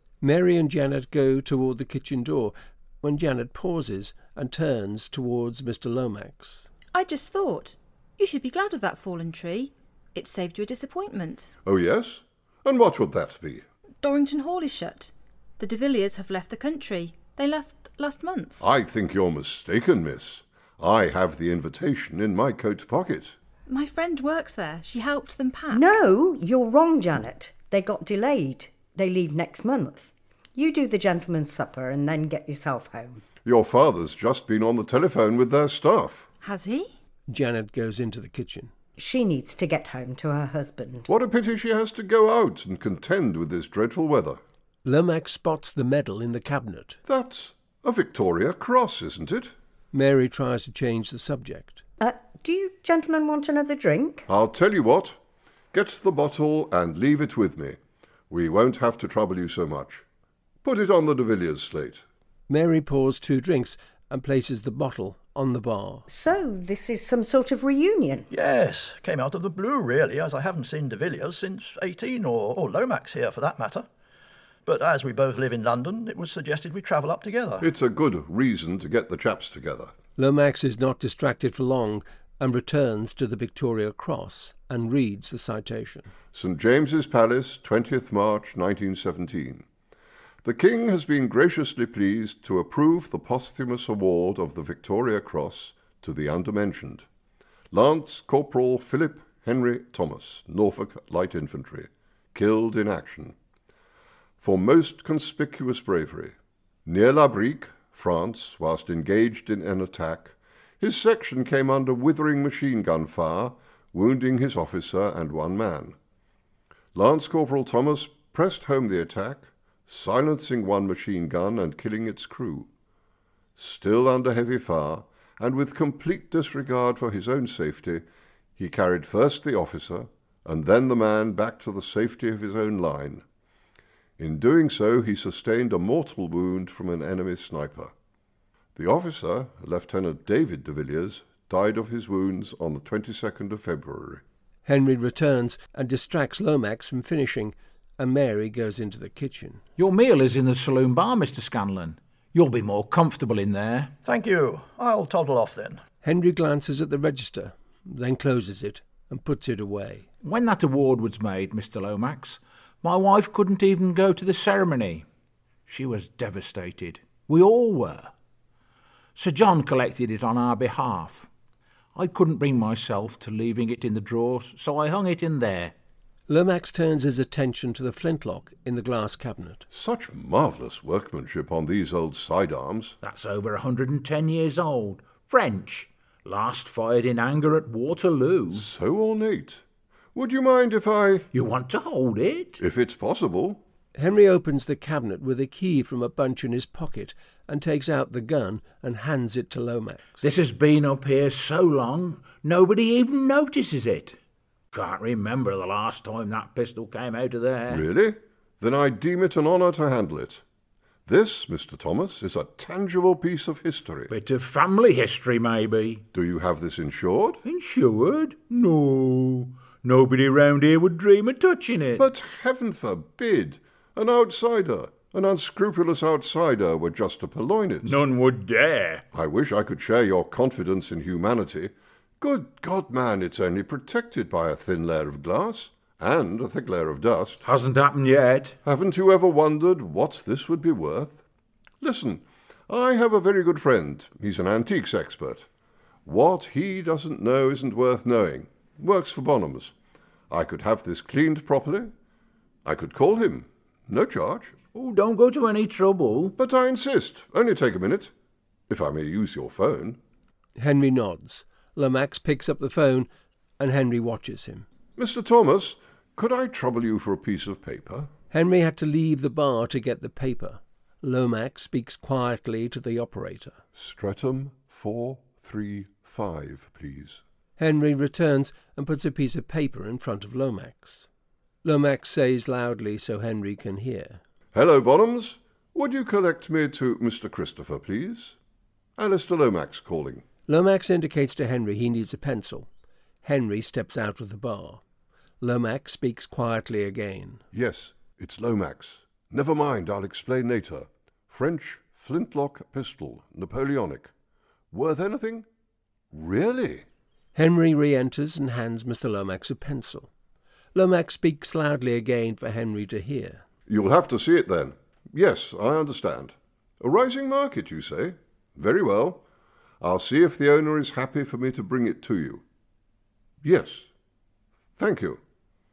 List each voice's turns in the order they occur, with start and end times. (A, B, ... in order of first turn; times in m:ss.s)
0:00.2-0:06.7 A
0:06.9-0:11.5 B
0:11.6-0:13.6 C
0:14.0-0:18.6 B
0:18.6-0:23.4 C
0:23.7-0:25.9 B
0:25.7-0:33.2 D
0:33.4-0:36.3 C
0:36.4-0:36.9 B
0:37.3-0:38.7 A
0:39.0-0:41.1 D
0:41.1-0:44.4 C
0:44.8-0:47.0 A
0:47.1-0:49.5 C
0:49.9-0:51.8 A
0:52.0-0:54.3 D
0:54.3-0:55.2 C
0:55.7-0:57.8 C
0:58.3-1:00.0 C
1:00.6-1:02.0 C
1:02.5-1:06.0 A
1:06.1-1:08.3 D
1:08.3-1:13.9 E
1:14.6-1:17.7 E
1:17.6-1:19.9 C
1:20.2-1:26.1 A
1:26.3-1:29.6 C
1:30.4-1:37.0 C
1:37.7-1:43.3 C
1:44.4-1:56.0 C
1:56.9-2:02.7 C
2:03.6-2:08.0 C
2:08.6-2:13.2 C
2:14.2-2:17.9 C
2:18.7-2:24.2 C
2:24.6-2:29.6 A
2:29.8-2:33.9 F
2:34.0-2:35.8 E
2:36.0-2:40.0 A
2:40.2-2:45.0 F
2:45.7-2:48.1 F
2:49.2-2:51.3 F
2:52.0-2:55.7 F
2:56.3-2:59.6 A
2:59.7-3:03.0 C
3:03.0-3:08.6 F
3:08.5-3:09.6 C
3:10.1-3:11.3 C
3:11.3-3:12.6 F
3:12.6-3:13.6 C
3:14.0-3:20.2 A
3:20.2-3:24.2 F
3:24.7-3:27.8 F
3:27.7-3:30.4 C
3:31.0-3:34.1 C
3:34.1-3:36.0 F
3:36.1-3:37.4 C
3:37.4-3:42.0 F
3:42.0-3:48.0 C
3:47.8-3:49.0 F
3:49.1-3:57.4 C
3:57.4-3:58.6 F
3:58.6-4:01.2 C
4:01.8-4:05.5 C
4:06.0-4:09.7 C
4:10.3-4:11.9 C
4:12.6-4:14.5 C
4:14.7-4:16.3 F
4:16.4-4:18.1 C
4:18.7-4:20.0 C
4:20.6-4:23.1 A
4:23.6-4:24.6 A
4:25.0-4:28.1 C
4:28.3-4:33.6 A
4:33.8-4:37.2 C
4:37.6-4:41.1 A
4:41.6-4:44.2 A
4:44.5-4:48.4 C
4:49.0-4:50.2 C
4:50.5-4:52.7 A
4:53.2-4:54.8 A
4:55.4-4:57.4 A
4:57.5-5:04.1 C
5:04.7-5:05.5 C
5:06.1-5:06.8 C
5:07.3-5:10.1 A
5:10.7-5:13.4 A
5:13.7-5:19.2 C
5:19.8-5:22.4 C
5:23.4-5:23.9 C
5:24.8-5:25.2 C